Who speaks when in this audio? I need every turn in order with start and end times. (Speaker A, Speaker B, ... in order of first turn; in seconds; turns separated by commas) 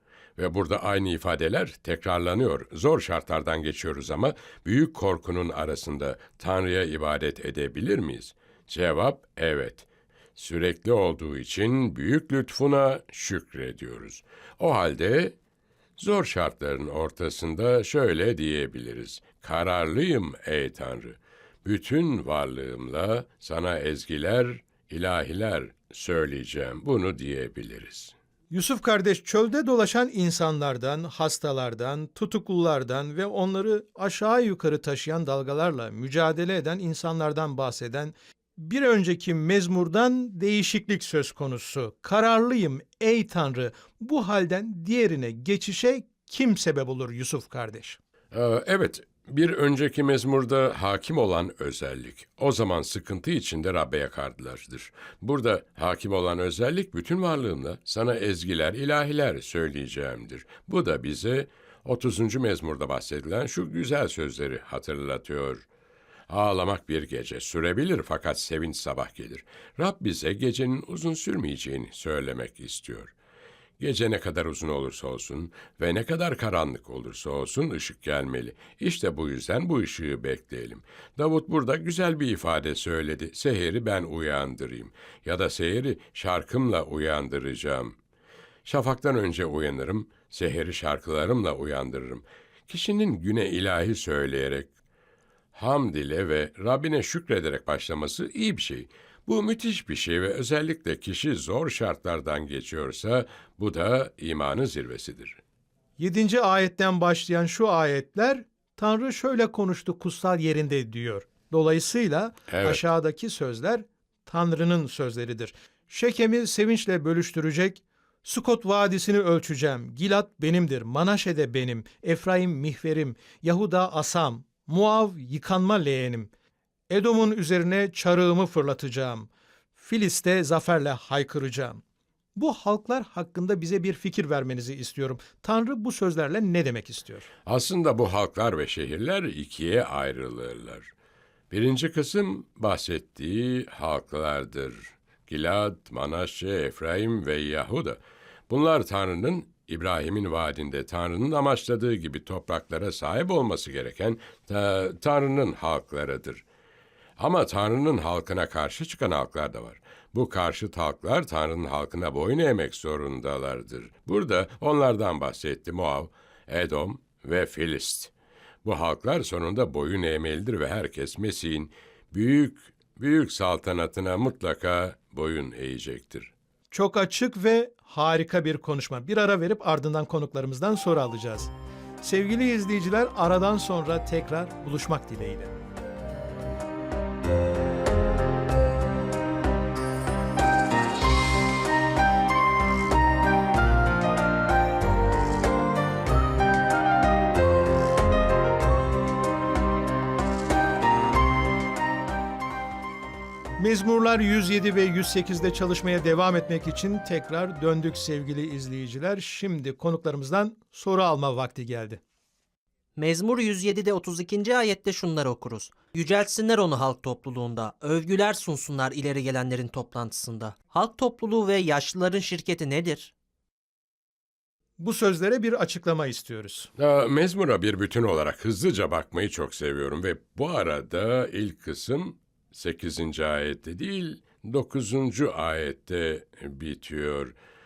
Speaker A: 0.4-15.3, Speaker A: 16.0-28.1, Speaker B: 28.5-48.0, Speaker A: 48.3-65.6, Speaker A: 66.3-73.1, Speaker A: 73.8-88.0, Speaker A: 88.6-94.7, Speaker A: 95.5-105.4, Speaker B: 106.0-126.3, Speaker A: 112.5-112.8, Speaker B: 126.9-131.8, Speaker B: 132.3-137.3, Speaker A: 137.4-140.9, Speaker A: 141.5-156.4, Speaker A: 157.2-168.1, Speaker A: 168.6-176.3, Speaker B: 176.7-185.5, Speaker B: 203.6-212.0, Speaker C: 212.9-223.1, Speaker B: 224.8-226.7, Speaker A: 226.8-237.3